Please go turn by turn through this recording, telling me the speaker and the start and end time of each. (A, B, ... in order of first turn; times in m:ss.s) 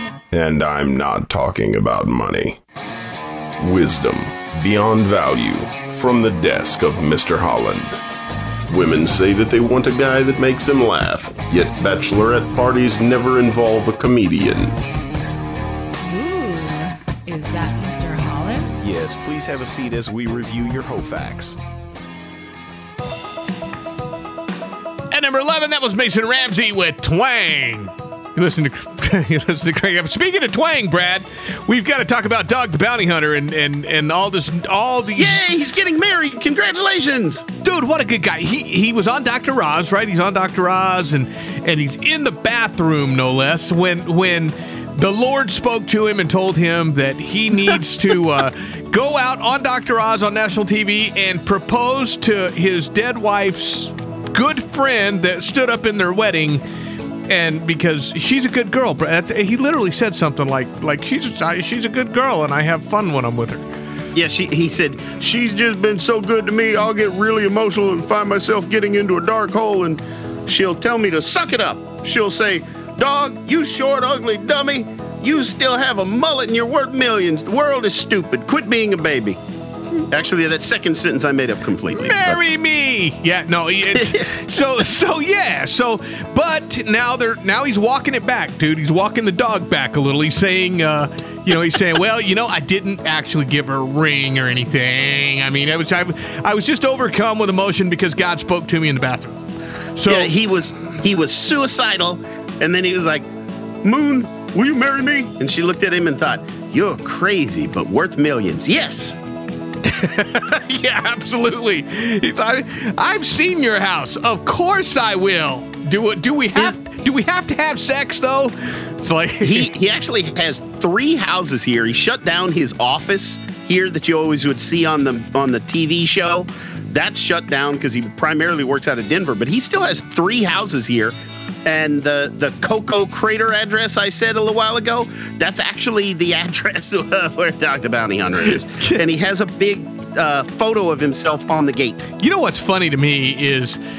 0:00.3-0:02.6 A
0:03.6-0:08.0 A
0:08.7-0:14.8 A
0:16.0-0:18.7 B
0:18.8-0:21.6 C
0:25.1-0:35.4 D
0:35.2-0:37.4 E
0:37.6-0:56.6 D
0:57.3-1:03.6 D
1:04.1-1:19.4 E
1:20.1-1:22.4 E
1:22.0-1:39.4 D
1:40.0-1:40.3 D
1:40.1-1:43.3 E
1:43.8-1:49.2 E
1:49.9-1:59.7 D
1:59.4-2:22.0 E
2:22.2-2:23.8 D